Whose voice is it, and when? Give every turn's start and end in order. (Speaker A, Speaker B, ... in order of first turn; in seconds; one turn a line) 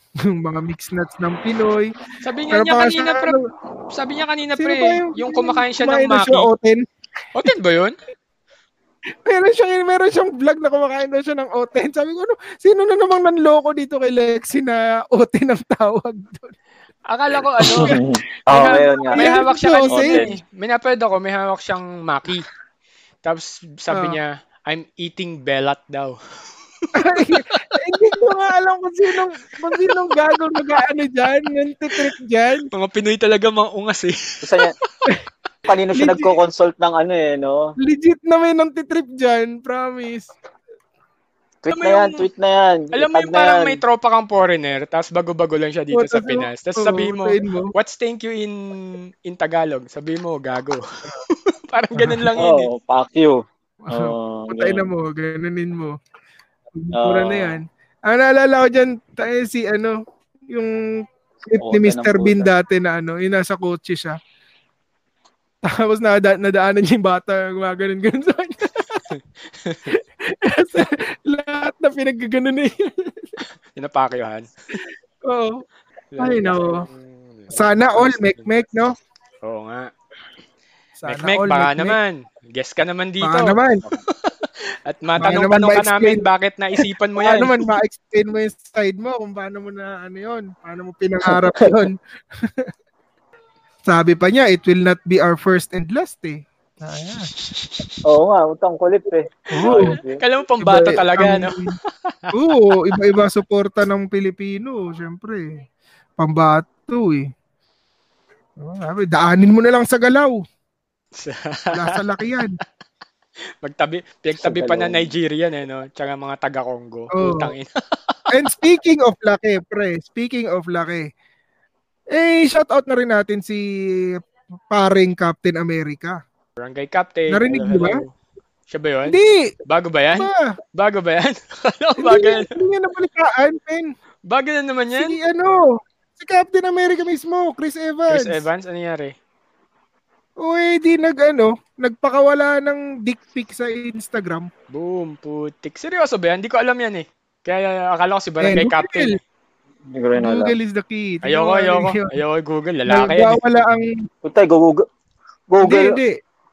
Speaker A: 0.3-1.9
Speaker B: 2.2-3.4
Speaker A: 2.5-3.4
Speaker B: 3.9-6.5
Speaker A: 4.5-6.8
Speaker B: 7.3-8.0
Speaker A: 9.2-16.5
Speaker B: 17.1-22.5
Speaker C: 17.6-19.4
Speaker A: 18.7-20.3
Speaker C: 19.9-20.3
Speaker B: 23.2-26.2
Speaker A: 23.9-24.2
Speaker B: 26.8-27.7
Speaker A: 26.9-32.7
Speaker B: 32.7-35.1
Speaker C: 34.4-34.7
Speaker C: 35.6-37.7
Speaker A: 35.9-36.3
Speaker A: 37.8-40.3
Speaker C: 41.6-43.8
Speaker B: 41.7-42.2
Speaker B: 42.9-52.7
Speaker A: 45.9-47.7
Speaker A: 51.9-52.2
Speaker C: 52.4-54.9
Speaker A: 53.9-56.0
Speaker A: 56.8-60.0
Speaker C: 56.9-57.6
Speaker A: 60.5-64.2
Speaker C: 61.6-62.5
Speaker A: 65.6-69.0
Speaker B: 69.1-69.9
Speaker A: 69.9-73.4
Speaker B: 73.8-74.5
Speaker A: 75.2-75.6
Speaker B: 76.1-78.5
Speaker A: 76.2-76.9
Speaker A: 77.5-78.9
Speaker B: 79.4-79.9
Speaker A: 81.0-82.0
Speaker B: 81.1-87.5
Speaker A: 83.2-83.8
Speaker A: 85.2-86.2
Speaker A: 87.2-92.7
Speaker C: 91.3-91.7
Speaker A: 93.8-97.3
Speaker B: 96.9-97.9
Speaker C: 98.0-100.2
Speaker A: 99.5-99.9
Speaker B: 99.5-102.3
Speaker A: 100.6-101.7
Speaker A: 102.3-105.6
Speaker A: 106.2-107.3
Speaker A: 108.6-110.4
Speaker B: 111.1-112.0
Speaker A: 111.7-112.6
Speaker B: 113.6-118.2
Speaker C: 114.4-115.1
Speaker A: 117.2-117.5
Speaker A: 118.3-121.1
Speaker A: 122.1-123.6
Speaker A: 124.7-126.2
Speaker B: 126.6-128.1
Speaker A: 127.3-128.0
Speaker B: 128.7-129.2
Speaker A: 129.1-129.5
Speaker B: 129.7-132.5
Speaker A: 130.1-130.5
Speaker A: 132.0-133.9
Speaker B: 134.3-135.2
Speaker A: 135.0-138.4
Speaker B: 138.1-139.1
Speaker A: 140.4-144.5
Speaker B: 144.7-149.2
Speaker A: 148.4-149.2
Speaker C: 149.9-150.6
Speaker A: 150.2-152.2
Speaker B: 151.2-153.4
Speaker A: 152.9-153.9
Speaker C: 154.2-154.8
Speaker C: 155.5-156.0
Speaker A: 155.6-156.2